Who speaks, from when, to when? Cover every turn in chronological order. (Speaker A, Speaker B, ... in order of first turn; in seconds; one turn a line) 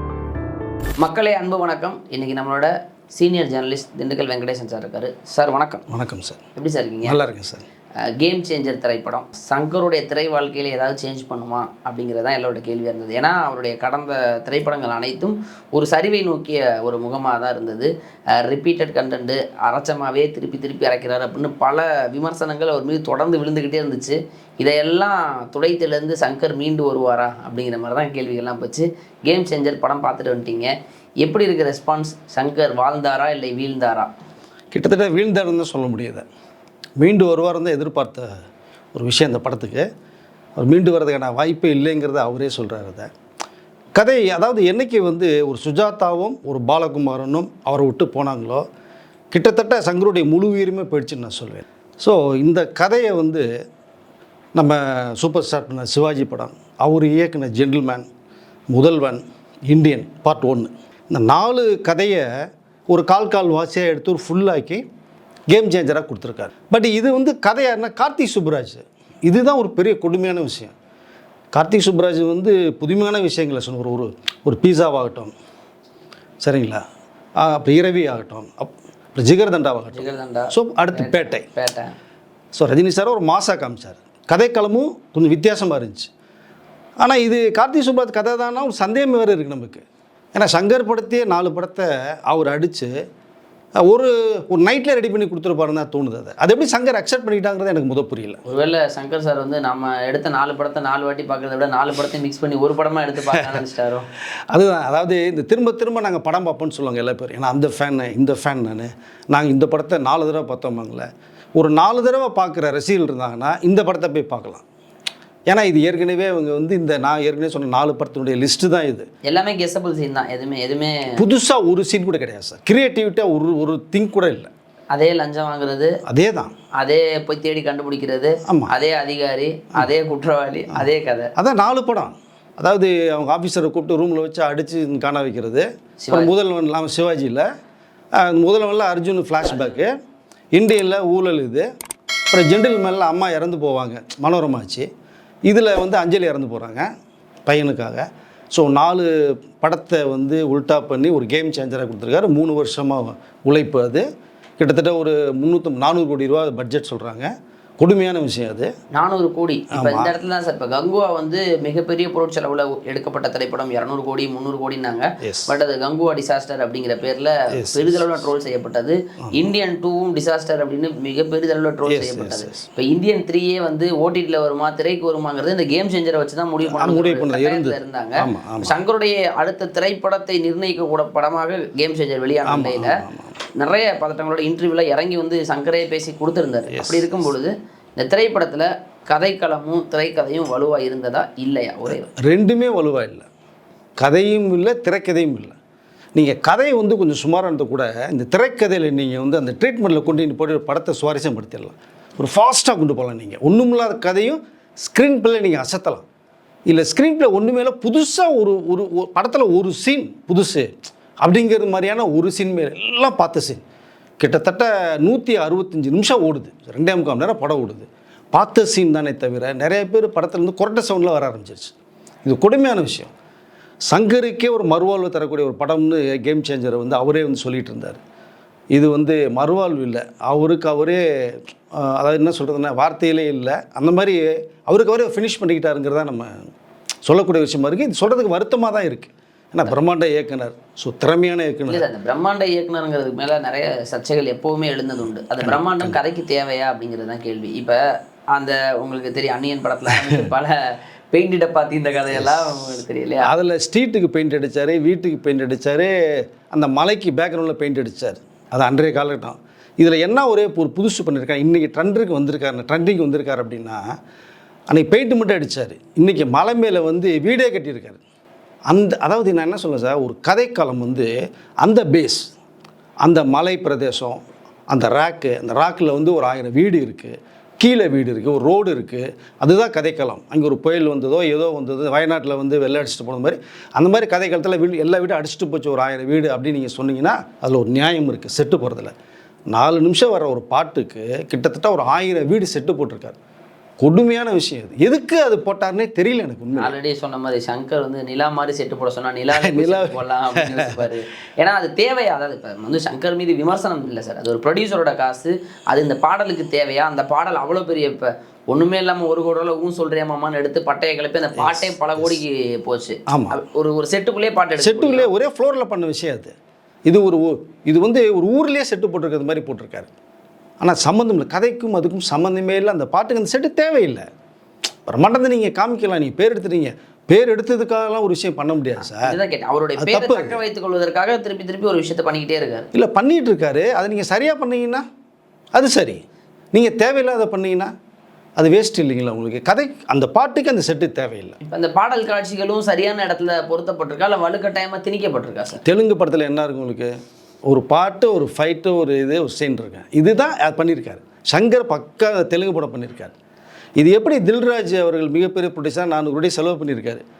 Speaker A: 1.0-5.8
Speaker B: 5.9-6.4
Speaker A: 6.5-7.2
Speaker B: 7.0-7.7
Speaker A: 8.1-34.1
Speaker B: 34.7-36.2
Speaker B: 37.0-38.3
Speaker B: 38.9-39.9
Speaker B: 40.6-43.1
Speaker B: 44.0-48.6
Speaker B: 49.3-53.5
Speaker B: 54.5-58.1
Speaker B: 58.7-62.3
Speaker B: 62.9-64.8
Speaker B: 65.5-70.7
Speaker B: 71.5-75.3
Speaker B: 76.4-76.8
Speaker B: 77.4-81.5
Speaker A: 79.9-81.9
Speaker B: 82.5-86.1
Speaker B: 87.0-92.9
Speaker B: 93.8-98.4
Speaker A: 98.5-104.0
Speaker B: 103.3-103.6
Speaker B: 104.5-114.6
Speaker B: 115.5-119.1
Speaker A: 119.3-121.1
Speaker B: 121.2-124.5
Speaker A: 124.9-126.0
Speaker B: 126.0-126.5
Speaker A: 126.8-131.3
Speaker B: 128.4-128.7
Speaker B: 131.3-137.4
Speaker A: 136.0-136.3
Speaker B: 138.2-139.9
Speaker A: 139.5-139.8
Speaker B: 140.5-141.7
Speaker B: 142.3-144.9
Speaker B: 145.5-146.9
Speaker B: 147.4-154.0
Speaker B: 154.6-158.7
Speaker A: 158.9-182.9
Speaker B: 159.7-160.2
Speaker B: 165.2-165.5
Speaker B: 167.5-168.3
Speaker B: 169.2-169.5
Speaker B: 171.8-172.6
Speaker B: 176.6-178.8
Speaker B: 182.5-183.4
Speaker A: 183.6-192.1
Speaker B: 186.7-187.3
Speaker B: 191.9-193.3
Speaker B: 194.0-195.6
Speaker B: 196.1-206.0
Speaker B: 206.7-213.6
Speaker B: 214.2-221.7
Speaker B: 222.2-223.1
Speaker B: 223.9-228.0
Speaker B: 228.7-236.5
Speaker B: 237.1-241.9
Speaker A: 241.7-247.8
Speaker B: 245.4-246.0
Speaker A: 248.3-250.6
Speaker B: 249.9-250.3
Speaker A: 251.1-253.3
Speaker B: 252.1-263.8
Speaker B: 264.7-268.0
Speaker B: 268.7-272.3
Speaker B: 273.0-288.9
Speaker B: 289.5-293.2
Speaker B: 293.8-296.7
Speaker A: 296.6-315.1
Speaker B: 299.3-300.9
Speaker B: 311.4-312.2
Speaker B: 313.1-313.4
Speaker B: 314.6-316.3
Speaker B: 316.9-319.9
Speaker B: 320.6-324.0
Speaker B: 324.9-329.1
Speaker A: 328.8-332.7
Speaker B: 329.8-330.4
Speaker B: 332.7-334.8
Speaker B: 335.5-336.0
Speaker B: 336.5-337.7
Speaker B: 338.4-341.4
Speaker A: 341.4-345.6
Speaker B: 345.6-346.9
Speaker B: 347.5-353.1
Speaker B: 353.8-357.0